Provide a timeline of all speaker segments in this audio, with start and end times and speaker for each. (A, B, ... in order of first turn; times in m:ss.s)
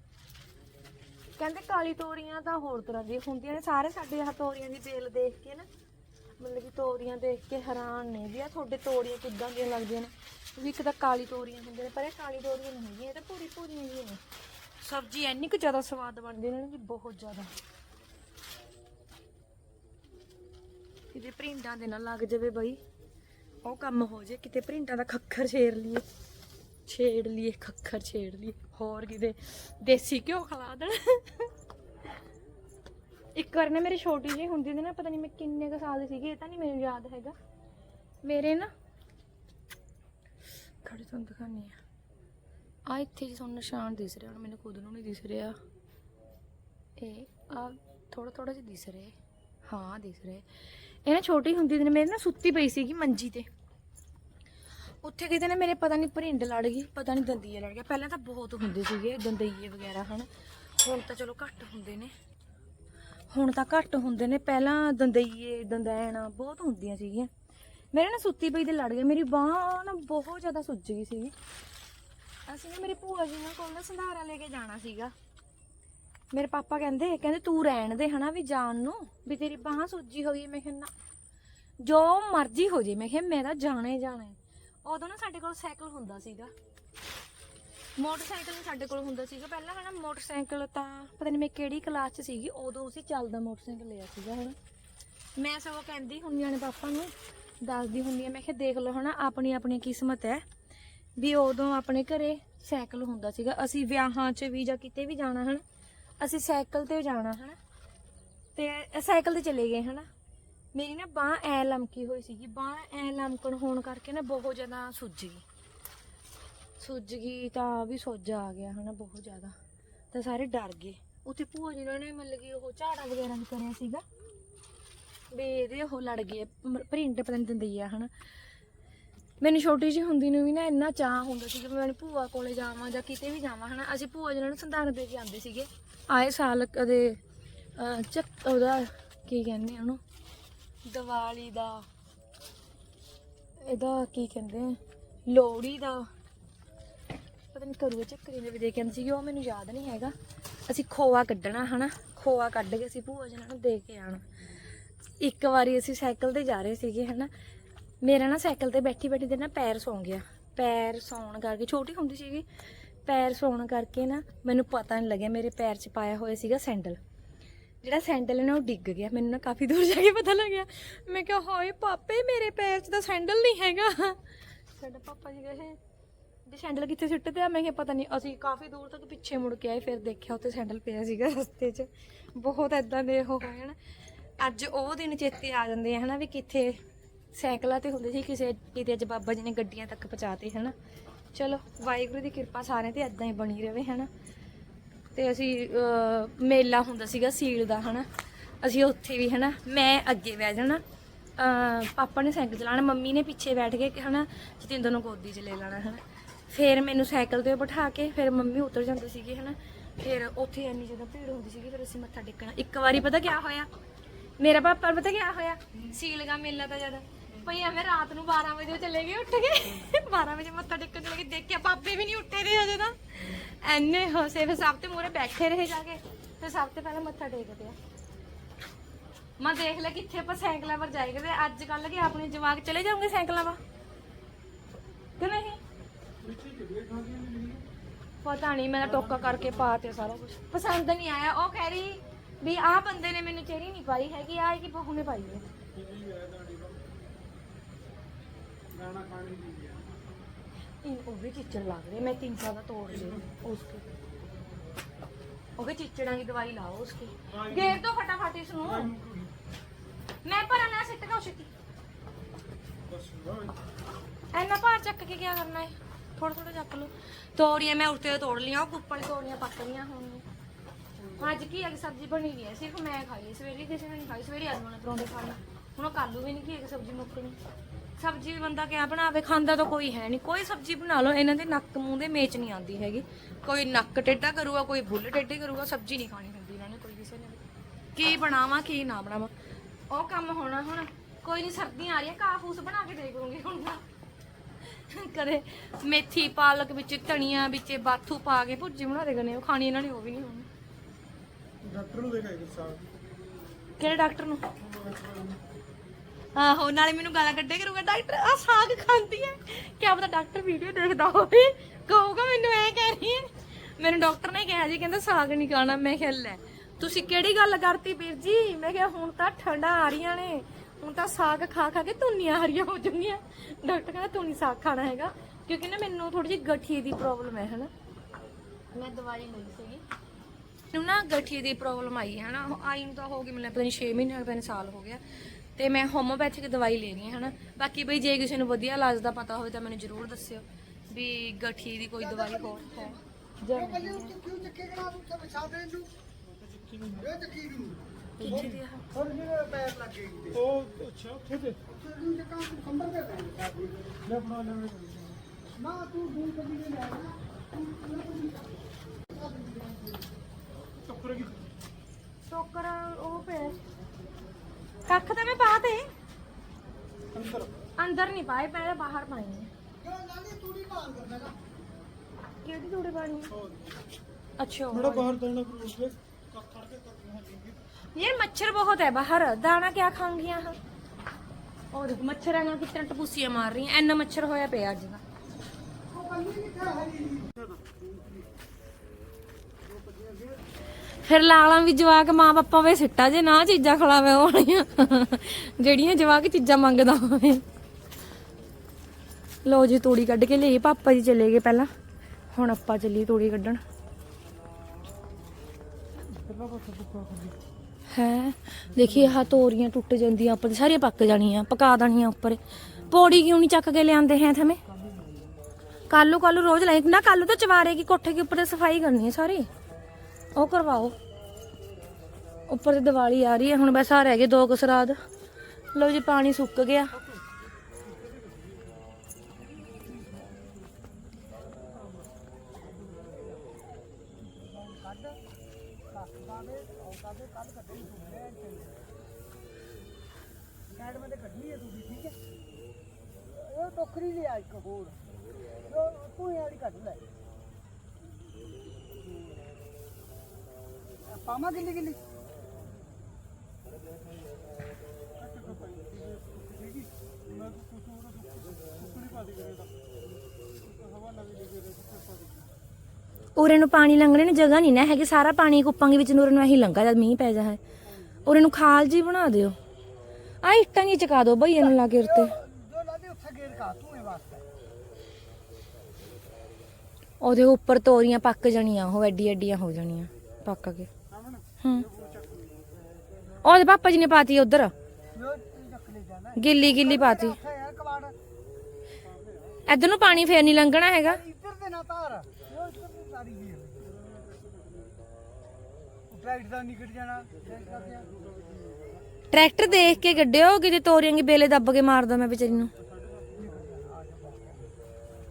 0:01.4-0:05.7 A
0:06.4-0:14.2 A
0:14.8-0:17.5 A
0:21.1-0:22.8 A
0:23.6-0:26.0 A
0:26.9-0:31.5 A
0:33.4-0:37.4 A
0:38.2-0:38.7 A
0:40.8-0:41.8 A
0:42.9-0:45.6 A
0:47.0-0:49.2 A
0:49.7-0:50.5 A
0:51.1-0:53.5 A
0:55.0-1:00.3 A
1:00.8-1:02.1 A
1:03.3-1:07.3 A
1:07.9-1:11.3 A
1:12.5-1:15.1 A
1:16.3-1:20.9 A
1:21.8-1:26.5 A
1:28.0-1:34.6 A
1:35.4-1:40.4 A
1:41.2-1:45.6 A
1:46.2-1:47.6 A
1:48.6-1:50.1 A
1:50.7-1:55.4 A
1:56.8-1:59.6 A
2:00.1-2:04.0 A
2:05.3-2:08.1 A
2:09.4-2:17.2 A
2:17.8-2:20.0 A
2:20.8-2:21.9 A
2:23.6-2:26.1 A
2:27.5-2:30.1 A
2:30.7-2:34.2 A
2:35.2-2:37.3 A
2:38.0-2:42.5 A
2:43.0-2:47.0 A
2:47.8-2:54.2 A
2:54.8-2:55.8 A
2:56.5-3:03.8 A
3:04.4-3:06.8 A
3:07.3-3:10.8 A
3:11.3-3:14.1 A
3:15.1-3:18.1 A
3:18.6-3:20.8 A
3:21.4-3:33.7 A
3:34.4-3:47.8 A
3:49.4-3:53.6 A
3:55.2-3:55.6 A
3:56.2-3:57.6 B
3:58.2-4:05.4 A
3:58.8-3:59.9 B
4:05.7-4:06.8 B
4:08.7-4:10.0 B
4:10.8-4:13.8 A
4:12.9-4:13.3 B
4:15.6-4:18.9 A
4:17.3-4:17.8 B
4:18.6-4:19.3 B
4:20.2-4:21.5 A
4:22.9-4:23.6 B
4:24.3-4:30.2 A
4:31.0-4:31.5 B
4:31.2-4:37.4 A
4:38.0-4:47.4 A
4:47.9-4:49.3 A
4:49.9-4:53.8 A
4:54.6-5:00.5 A
5:01.6-5:02.9 B
5:03.8-5:04.5 A
5:04.6-5:05.4 B
5:06.4-5:27.7 A
5:28.7-5:29.8 A
5:30.7-5:35.0 A
5:35.6-5:44.1 A
5:42.0-5:45.9 C
5:46.2-5:47.1 B
5:46.9-5:50.4 C
5:48.2-5:48.9 A
5:48.2-5:48.6 B
5:50.3-5:51.6 B
5:51.7-5:53.9 C
5:54.0-5:55.2 B
5:55.6-6:00.1 C
6:00.8-6:01.4 B
6:02.3-6:03.6 A
6:04.9-6:05.9 A
6:07.1-6:07.5 B
6:07.8-6:09.5 A
6:09.8-6:11.4 C
6:12.4-6:13.3 A
6:13.3-6:13.8 B
6:14.4-6:15.1 A
6:14.7-6:17.6 B
6:18.0-6:20.6 A
6:21.7-6:25.0 A
6:25.9-6:28.2 C
6:27.4-6:27.7 B
6:29.6-6:30.4 C
6:31.0-6:37.4 A
6:39.4-6:41.7 A
6:42.3-6:43.6 A
6:46.0-6:47.4 B
6:47.9-6:54.6 A
6:48.7-6:49.4 B
6:52.8-6:53.2 B
6:54.7-6:55.2 B
6:55.9-6:59.5 A
7:00.4-7:01.0 A
7:02.5-7:05.0 A
7:05.8-7:06.9 A
7:06.9-7:07.2 B
7:07.8-7:08.8 B
7:09.7-7:10.4 B
7:11.5-7:12.1 B
7:12.6-7:13.4 C
7:14.1-7:15.2 C
7:15.9-7:18.8 C
7:20.7-7:22.2 C
7:23.3-7:25.0 C
7:25.7-7:27.0 C
7:31.1-7:32.0 C
7:35.2-7:39.8 B
7:40.6-7:42.5 B
7:43.4-7:47.6 A
7:48.3-7:49.6 A
7:50.4-7:52.4 A
7:51.6-7:54.4 C
7:57.2-8:00.9 A
8:01.1-8:03.4 B
8:01.6-8:01.9 A
8:03.4-8:04.7 A
8:05.1-8:08.1 C
8:06.4-8:07.4 A
8:09.0-8:09.6 B
8:09.7-8:11.2 A
8:10.9-8:13.8 C
8:13.8-8:15.0 B
8:16.1-8:18.1 C
8:17.4-8:20.2 B
8:19.3-8:22.7 A
8:22.4-8:23.7 B
8:23.4-8:24.6 C